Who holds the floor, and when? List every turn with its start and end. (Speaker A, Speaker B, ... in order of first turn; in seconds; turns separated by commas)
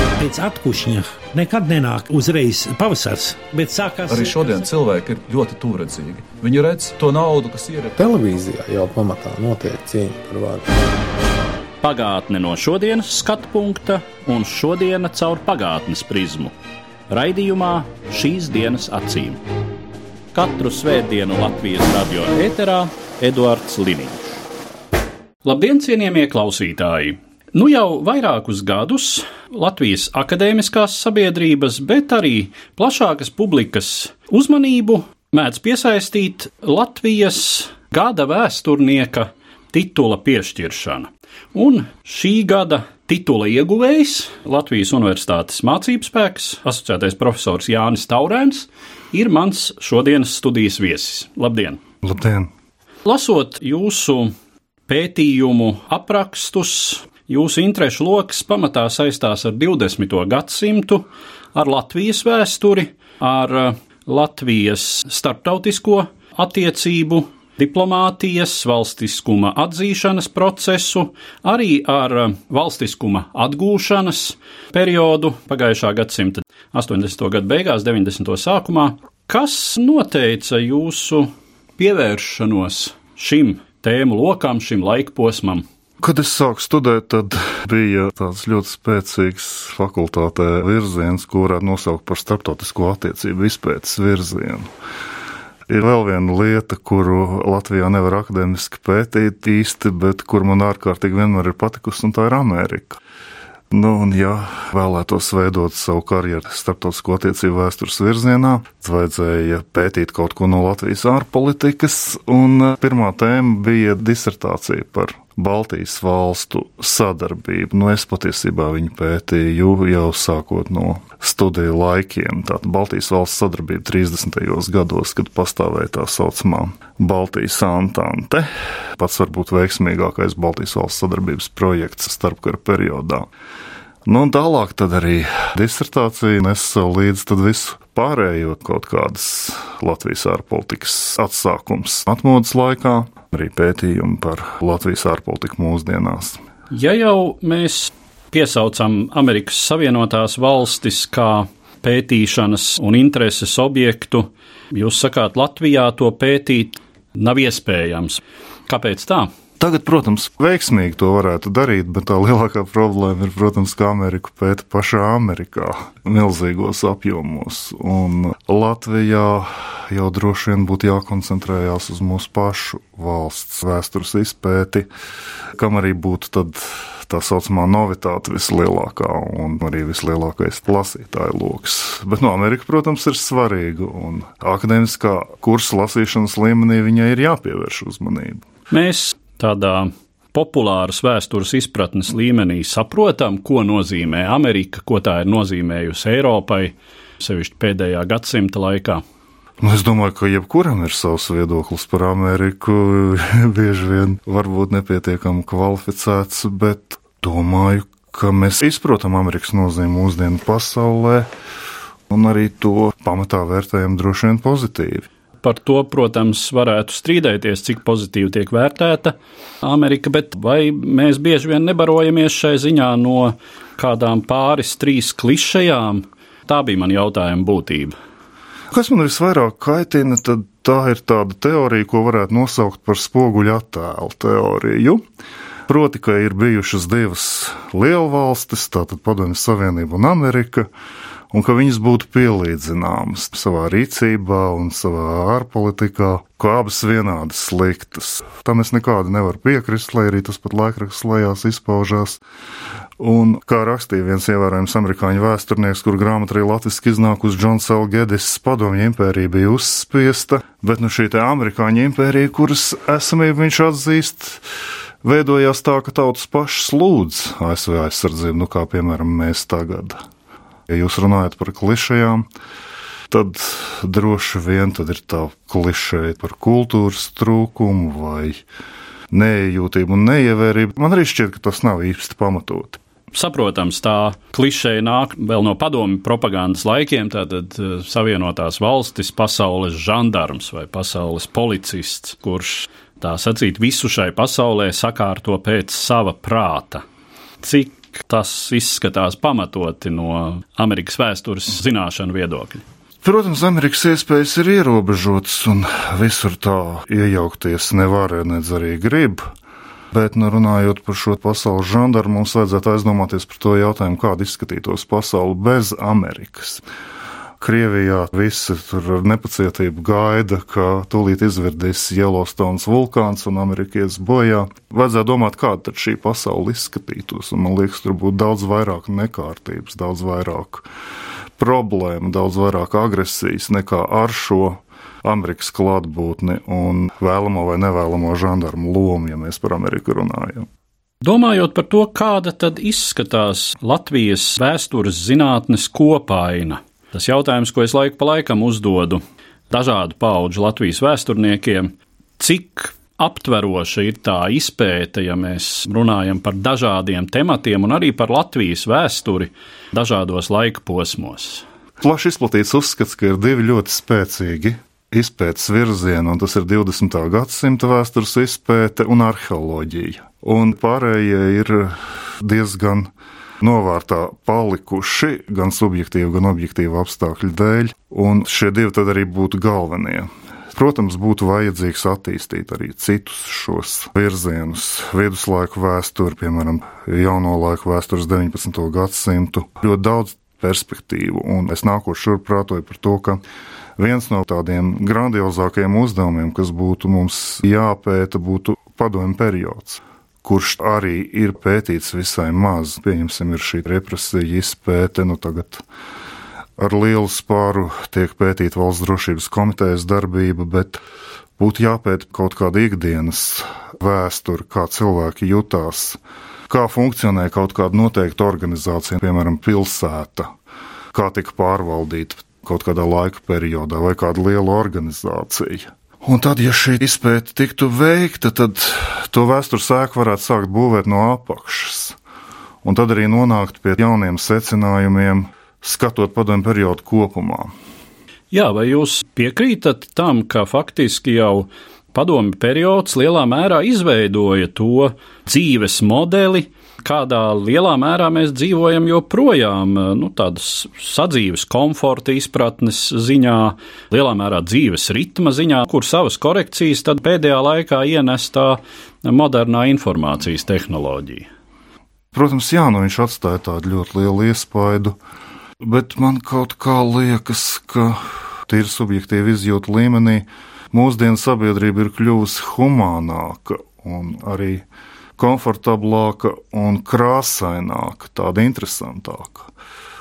Speaker A: 0.2-4.4, Speaker B: 4.1-8.0, Speaker C: 8.0-10.7, Speaker D: 11.8-16.6, Speaker D: 17.1-19.4, Speaker D: 20.3-24.4, Speaker D: 25.4-51.8, Speaker E: 52.0-52.5, Speaker D: 53.0-54.3, Speaker D: 54.9-85.6, Speaker E: 86.0-94.7, Speaker E: 95.7-103.0, Speaker E: 103.7-133.3, Speaker E: 134.1-146.4, Speaker D: 146.7-159.3, Speaker E: 159.6-174.9, Speaker E: 175.6-188.4, Speaker D: 188.7-199.0, Speaker E: 199.6-211.3, Speaker E: 212.1-215.1, Speaker D: 215.4-227.9, Speaker E: 228.7-235.0, Speaker E: 235.7-240.7, Speaker E: 241.3-252.2, Speaker E: 253.0-264.4, Speaker E: 265.0-270.0, Speaker E: 270.7-272.3, Speaker E: 273.1-278.4, Speaker E: 279.1-282.8, Speaker D: 283.1-296.8, Speaker D: 297.4-302.6, Speaker E: 303.0-309.3, Speaker E: 309.9-316.6, Speaker E: 317.4-330.7, Speaker E: 331.4-340.5, Speaker D: 341.0-361.4, Speaker E: 361.8-393.2, Speaker E: 393.8-405.6, Speaker E: 406.6-410.8, Speaker E: 411.4-420.3, Speaker E: 420.9-431.9, Speaker E: 432.6-437.5, Speaker D: 438.3-461.3, Speaker E: 462.1-464.9, Speaker E: 465.6-474.6, Speaker E: 475.2-479.5